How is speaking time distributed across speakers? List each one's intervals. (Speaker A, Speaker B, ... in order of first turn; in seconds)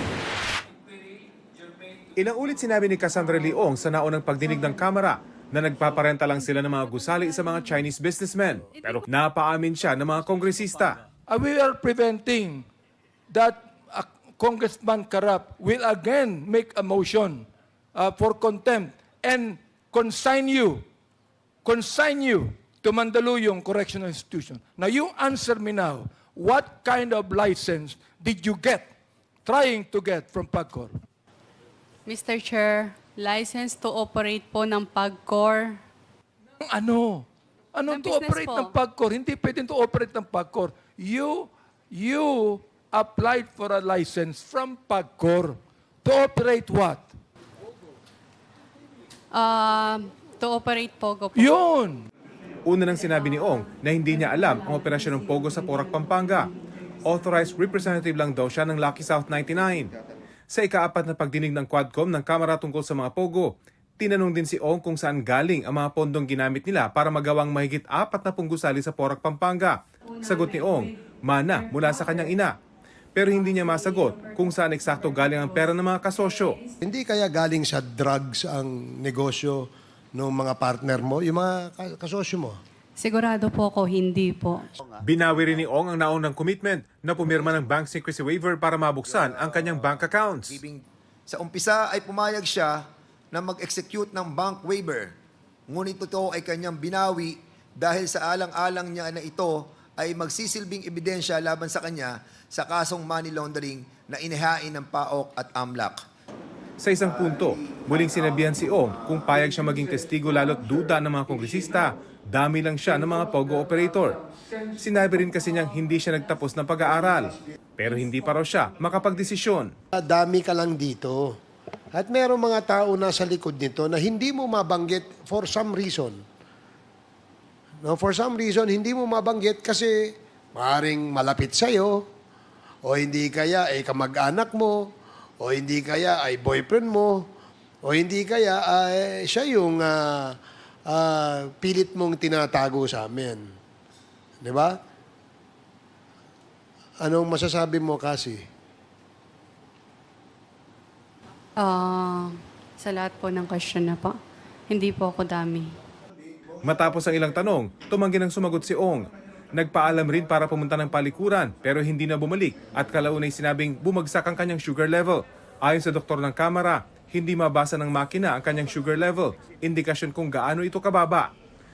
Speaker A: 2.2-11.0, 52.7-56.5, 57.0-59.9, 60.5-72.5, 73.2-76.6, 85.0-90.6, 106.8-114.2, 114.8-119.7, 156.6-171.3
Speaker B: 11.3-12.7, 13.3-20.8, 21.6-28.9, 29.4-30.9, 36.6-47.1, 51.3-52.0
Speaker C: 32.1-35.8, 37.9-38.8, 49.3-51.6, 83.0-84.7, 151.6-154.2, 154.7-155.7
Speaker D: 76.8-82.6, 119.9-121.3, 121.9-126.2, 127.8-132.1, 132.8-134.9, 135.4-137.3, 137.9-140.4, 140.9-143.4, 144.4-144.8, 147.0-148.4
Speaker E: 89.5-89.9, 90.5-95.1, 95.7-106.0, 107.1-108.6